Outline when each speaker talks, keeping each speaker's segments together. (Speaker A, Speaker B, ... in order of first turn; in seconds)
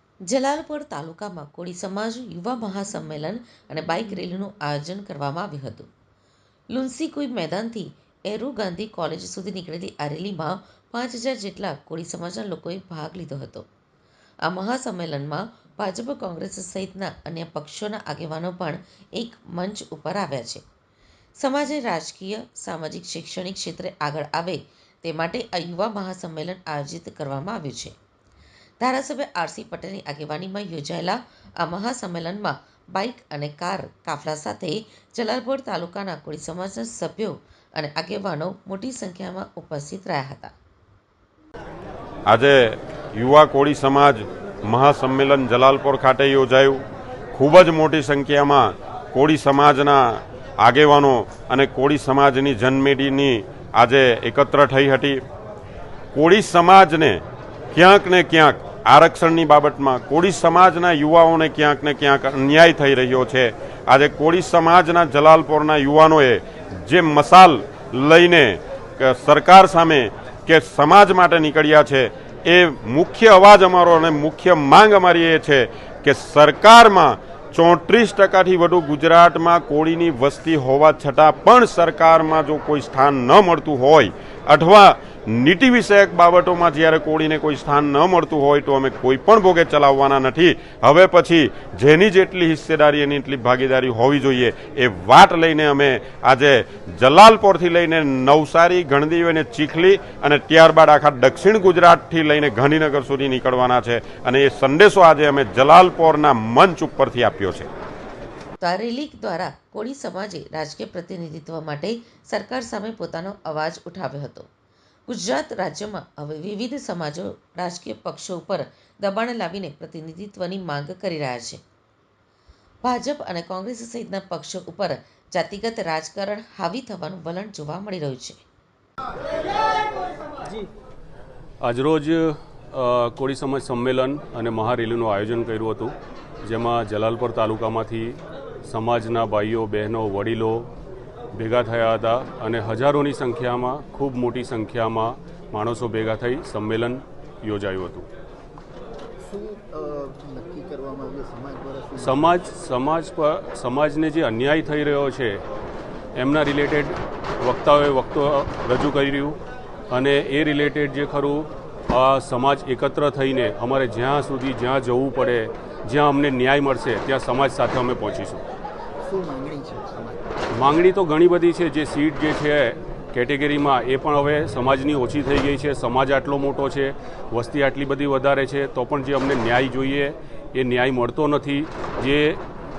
Speaker A: 0.3-5.9, 6.7-13.7, 14.4-20.6, 21.4-27.9, 28.8-40.5, 108.6-114.5, 115.1-121.6, 122.8-128.4
Speaker B: 42.3-55.2, 56.1-107.7
Speaker C: 131.6-140.7, 141.3-148.1, 152.0-155.4, 156.2-159.4, 159.9-168.4, 170.5-182.4
Speaker D: 149.2-152.3, 169.0-170.4